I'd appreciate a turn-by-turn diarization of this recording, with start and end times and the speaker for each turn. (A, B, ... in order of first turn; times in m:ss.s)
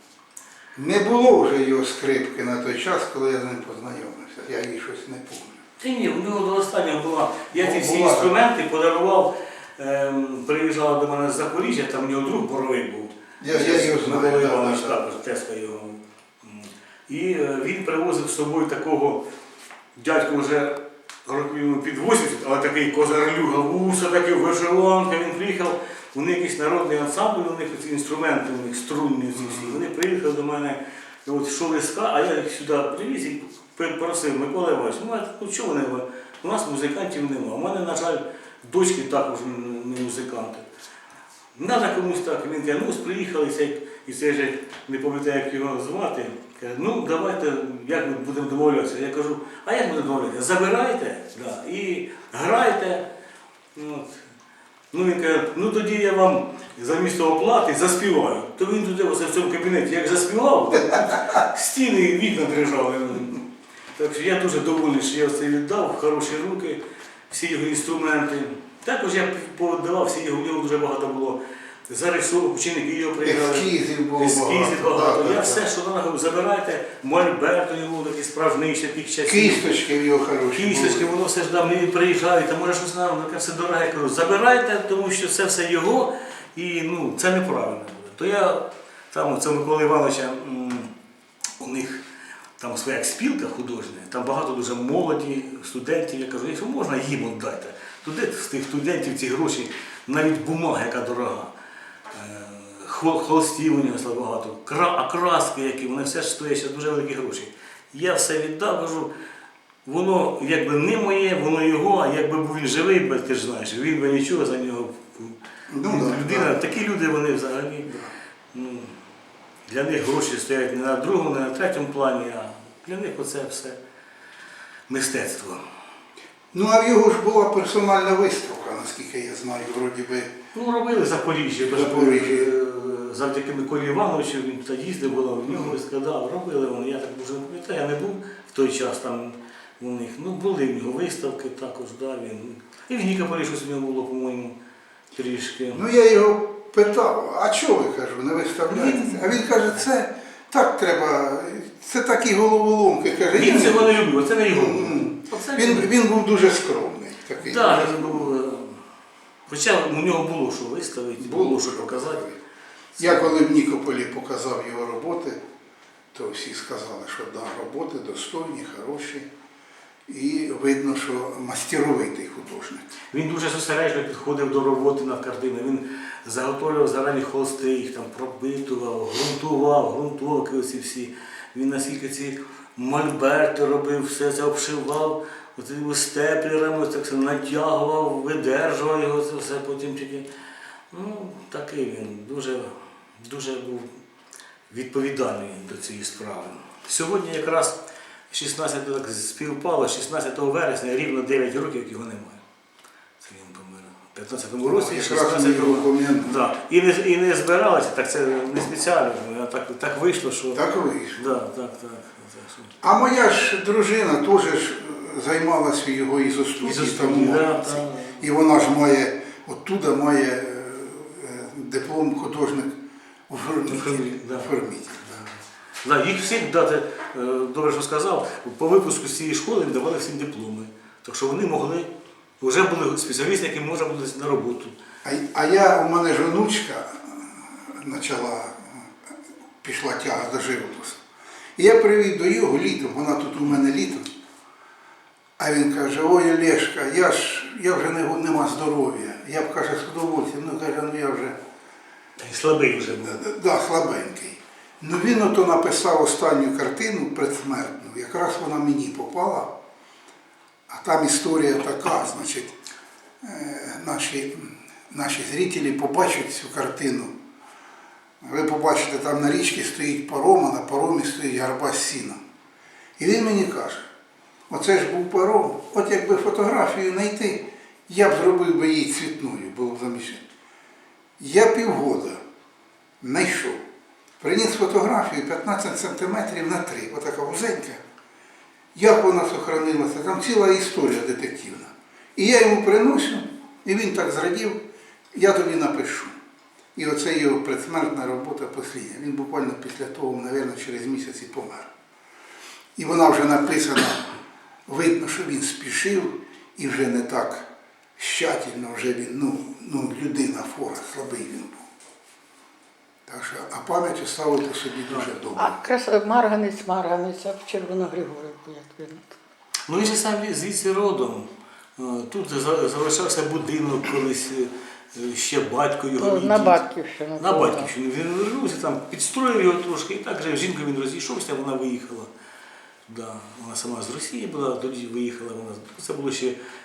0:00.8-0:05.6 A
0:05.8-0:19.2 B
0:07.5-0:08.3 A
0:13.4-0:15.0 A
0:20.0-0:40.7 B
0:29.4-0:29.8 A
0:41.5-0:53.1 B
0:53.7-0:54.2 B
0:54.9-1:03.4 B
1:00.9-1:01.4 A
1:04.0-1:19.7 B
1:13.2-1:15.6 A
1:19.2-1:21.1 A
1:20.5-1:30.9 B
1:31.6-1:32.0 B
1:32.6-1:41.5 B
1:42.1-1:49.1 B
1:49.8-1:57.9 B
1:55.7-1:56.6 A
1:57.9-1:58.1 A
1:58.5-1:59.0 B
1:59.7-2:03.8 B
2:04.9-2:05.6 B
2:06.5-2:10.3 A
2:10.5-2:24.6 B
2:11.7-2:12.5 A
2:15.5-2:15.7 A
2:25.1-2:25.8 B
2:25.7-2:38.3 A
2:28.7-2:29.3 B
2:33.3-2:35.9 B
2:37.4-2:38.8 B
2:39.5-2:42.3 B
2:41.2-2:42.3 A
2:43.0-2:43.4 B
2:43.0-2:45.4 A
2:46.1-2:49.3 A
2:50.1-2:52.9 A
2:53.1-3:10.3 B
3:10.9-3:14.0 B
3:14.7-3:17.8 B
3:18.3-3:22.4 B
3:23.2-3:30.6 B
3:24.6-3:26.4 A
3:30.5-3:31.2 A
3:31.1-3:32.7 B
3:32.8-3:42.7 A
3:36.6-3:38.3 B
3:43.3-3:45.2 A
3:43.7-3:44.5 B
3:45.8-3:51.9 B
3:52.4-3:54.7 B
3:55.0-4:01.0 A
4:01.6-4:04.1 A
4:05.4-4:11.4 A
4:12.2-4:13.2 B
4:13.0-4:19.5 A
4:20.7-4:22.6 A
4:23.2-4:27.1 A
4:28.2-4:32.2 A
4:33.0-4:33.9 A
4:34.5-4:40.3 A
4:41.2-4:42.2 A
4:43.0-4:43.6 A
4:44.2-4:47.8 A
4:48.7-4:54.6 A
4:55.1-4:56.1 A
4:56.7-5:01.7 A
5:02.8-5:04.1 A
5:04.7-5:11.6 A
5:13.1-5:15.6 A
5:15.4-5:19.1 C
5:19.7-5:26.6 B
5:26.0-5:27.7 C
5:27.2-5:32.1 B
5:32.9-5:36.4 B